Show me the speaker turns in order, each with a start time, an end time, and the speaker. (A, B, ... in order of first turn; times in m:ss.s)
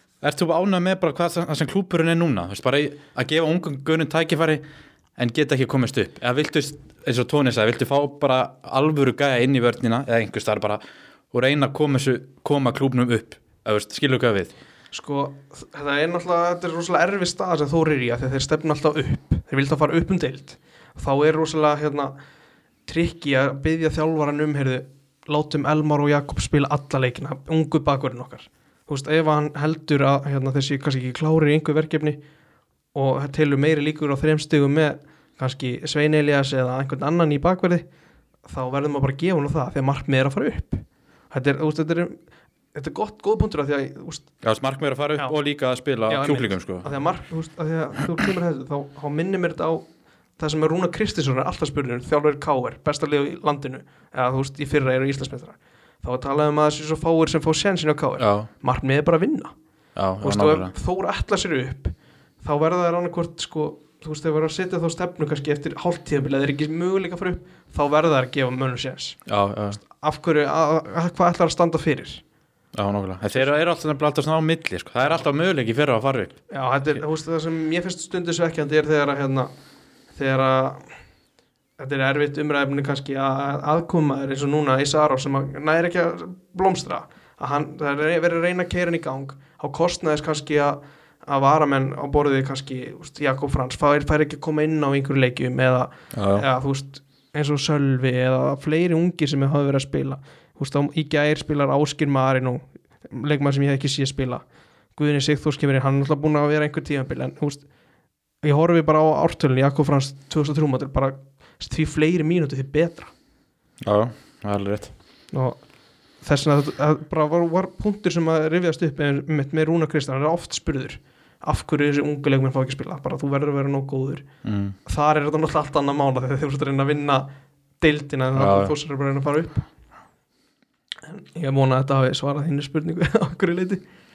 0:00.2-0:04.6 A
0:05.2-0:14.5 A
0:14.9-0:22.1 B
0:22.8-0:32.2 B
0:32.9-0:37.8 B
0:38.4-0:42.2 B
0:42.7-0:44.3 B
0:44.4-0:46.9 A
0:46.1-0:59.5 B
0:58.2-0:58.5 A
1:00.0-1:00.7 A
1:00.2-1:09.2 B
1:09.3-1:09.8 A
1:09.8-1:12.2 B
1:12.7-1:16.4 A
1:16.5-1:19.5 B
1:20.1-1:20.9 B
1:21.8-1:44.4 B
1:36.1-1:36.4 A
1:45.0-1:47.6 B
1:48.4-1:53.1 B
1:53.8-1:54.9 A
1:55.3-1:55.6 B
1:56.2-2:04.2 B
2:04.4-2:04.8 A
2:04.8-2:07.3 B
2:07.8-2:09.7 B
2:08.4-2:08.7 A
2:11.0-2:13.8 B